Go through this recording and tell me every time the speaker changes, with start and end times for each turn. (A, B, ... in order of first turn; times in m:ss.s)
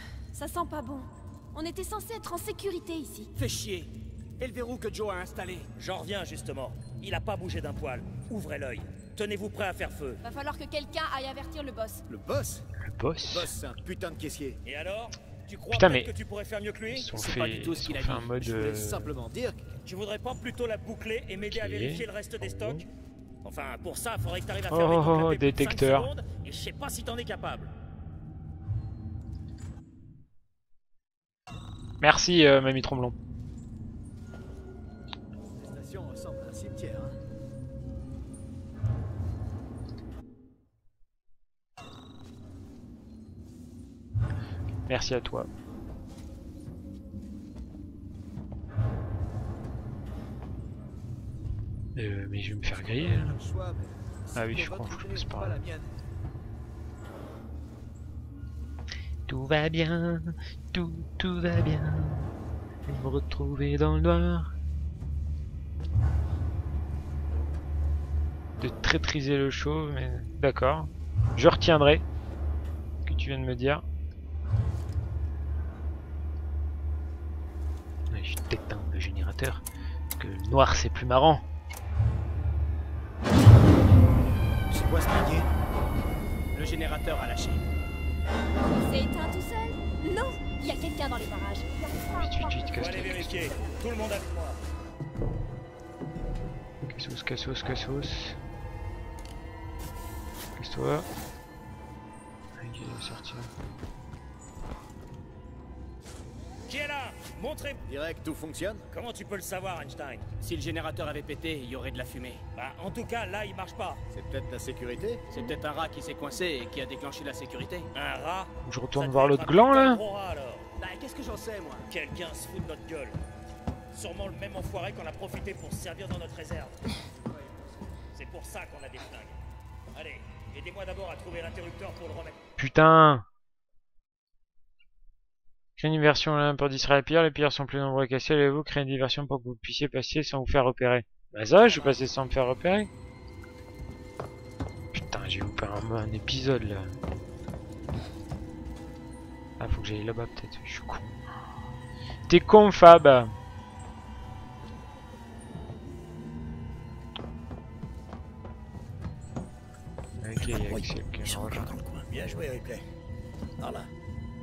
0:00.3-0:03.3 A
0:03.4-0:05.7 B
0:05.7-0:10.2 C
0:10.2-0:12.0 A
0:12.1-0:12.6 D
0:12.8-0:13.5 E
0:13.2-0:14.6 D
0:14.6-0:17.1 C
0:15.7-0:16.1 E
0:16.9-0:19.1 E
0:17.1-0:18.3 B
0:17.6-0:19.8 D
0:19.8-0:22.8 C
0:21.5-0:22.8 E
0:23.4-0:27.7 C
0:24.7-0:26.1 E
0:32.0-0:33.2 E
0:35.6-0:37.1 D
0:44.9-0:45.5 E
0:52.0-0:53.4 E
0:52.7-0:55.9 D
0:54.3-0:55.6 E
0:59.3-1:02.3 E
1:02.8-1:04.5 E
1:08.6-1:12.0 E
1:13.0-1:13.8 E
1:18.1-1:19.6 E
1:20.2-1:21.4 E
1:24.7-1:25.4 D
1:26.5-1:27.6 B
1:28.8-1:32.7 A
1:32.2-1:33.6 E
1:32.7-1:34.6 C
1:36.9-1:38.4 E
1:40.6-1:41.1 E
1:42.6-1:43.5 E
1:46.7-1:47.8 C
1:47.9-1:48.8 D
1:48.9-1:50.2 C
1:50.4-1:52.4 B
1:52.6-1:54.0 C
1:54.1-1:55.3 D
1:55.3-1:57.9 B
1:57.9-2:00.6 C
1:58.6-2:00.0 E
2:00.8-2:01.9 B
2:01.9-2:03.2 C
2:03.9-2:06.8 C
2:08.1-2:09.4 C
2:09.9-2:12.4 C
2:12.6-2:13.2 E
2:15.8-2:22.9 E
2:24.9-2:26.9 E
2:29.6-2:31.1 E
2:32.3-2:33.3 E
2:40.2-2:41.7 E
2:40.4-2:42.9 F
2:43.6-2:43.9 F